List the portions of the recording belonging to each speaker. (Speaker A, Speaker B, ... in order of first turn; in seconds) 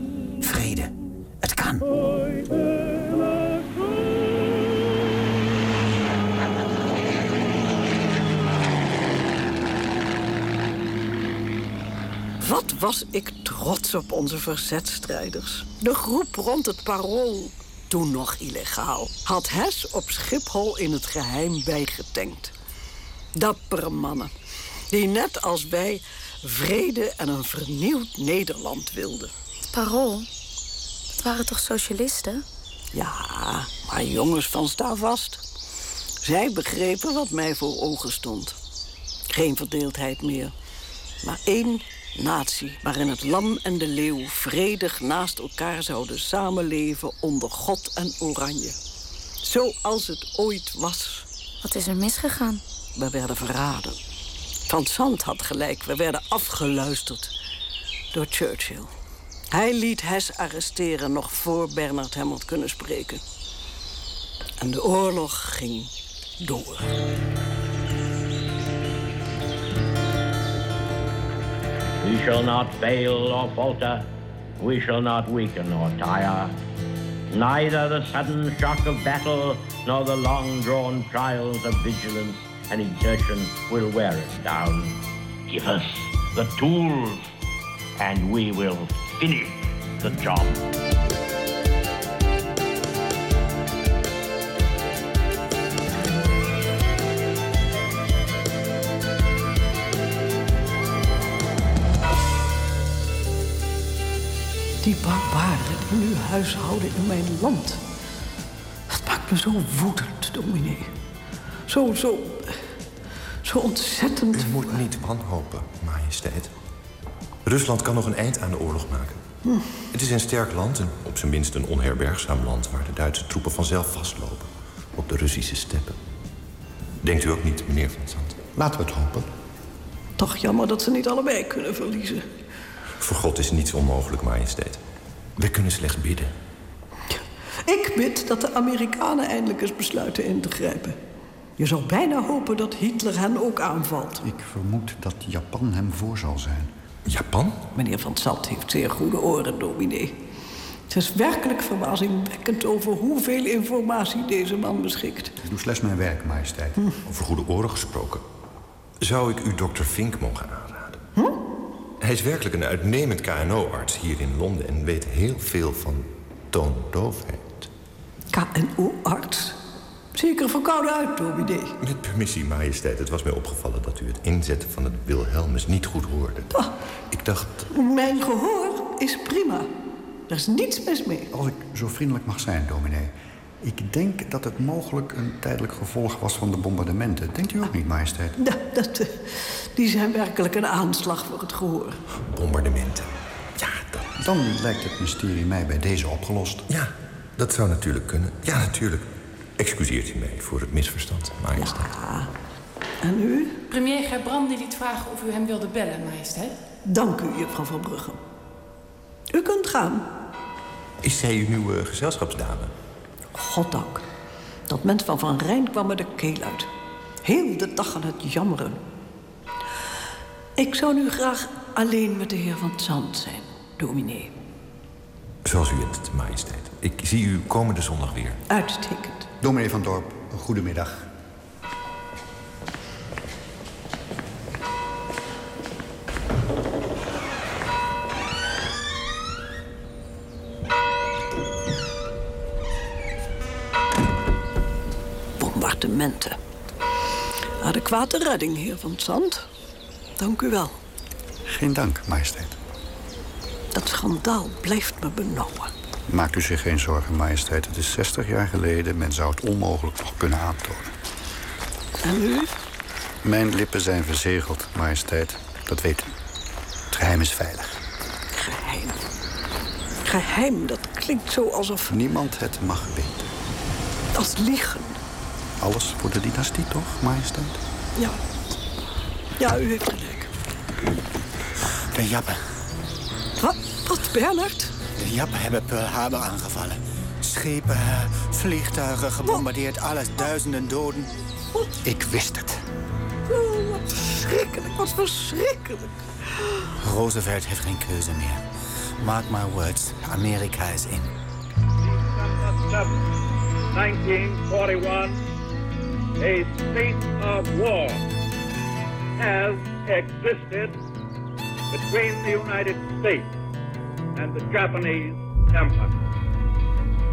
Speaker A: 0.4-1.9, 281.9-282.4, 285.0-291.1, 291.8-292.6, 296.8-298.4, 299.0-301.1
Speaker B: 12.4-22.5, 23.3-24.3, 24.9-29.3, 32.9-35.4, 36.2-38.6, 39.3-40.5, 41.2-48.8, 49.4-51.3, 53.0-54.0, 54.7-57.3, 58.1-58.9, 59.5-63.2, 64.6-66.9, 104.8-107.8, 108.9-110.9, 111.7-112.6, 113.4-114.8, 119.4-119.7, 130.2-132.2, 137.6-141.0, 141.6-144.2, 147.8-150.2, 150.9-155.3, 168.3-169.6, 170.1-171.8, 177.7-179.7, 180.3-181.3, 188.4-192.0, 201.6-202.3, 203.0-203.6, 206.9-208.2, 209.3-210.1, 213.3-214.0, 214.7-216.7, 217.2-218.8, 220.6-224.3, 228.5-229.3, 245.4-246.4, 247.6-249.5, 250.2-250.8, 253.7-255.7, 262.0-262.5, 268.3-269.0, 270.0-271.9, 274.1-275.0, 279.4-280.3, 283.4-284.8, 293.3-296.6
Speaker C: 29.7-30.3, 31.2-32.4, 51.6-52.6
Speaker D: 72.0-76.6, 77.3-87.2, 88.0-90.6
Speaker E: 114.3-116.5, 117.5-119.2, 119.9-126.0, 127.0-128.4, 133.0-134.8, 135.4-136.3, 147.1-147.6, 157.0-158.2, 159.0-161.0, 162.0-167.7, 171.8-176.5, 177.1-177.7, 192.3-194.1, 196.7-201.9, 211.0-212.7, 225.4-228.4
Speaker F: 128.5-129.3, 144.2-146.7, 155.4-156.9, 181.3-188.4, 194.2-196.6, 229.4-231.1, 251.5-252.6, 256.1-260.9, 263.2-266.1, 266.9-267.7, 271.9-273.3, 275.6-277.6
Speaker G: 203.7-206.6
Speaker H: 302.4-302.8, 303.8-305.1, 306.2-307.9, 309.2-310.7, 311.7-313.2, 314.2-315.7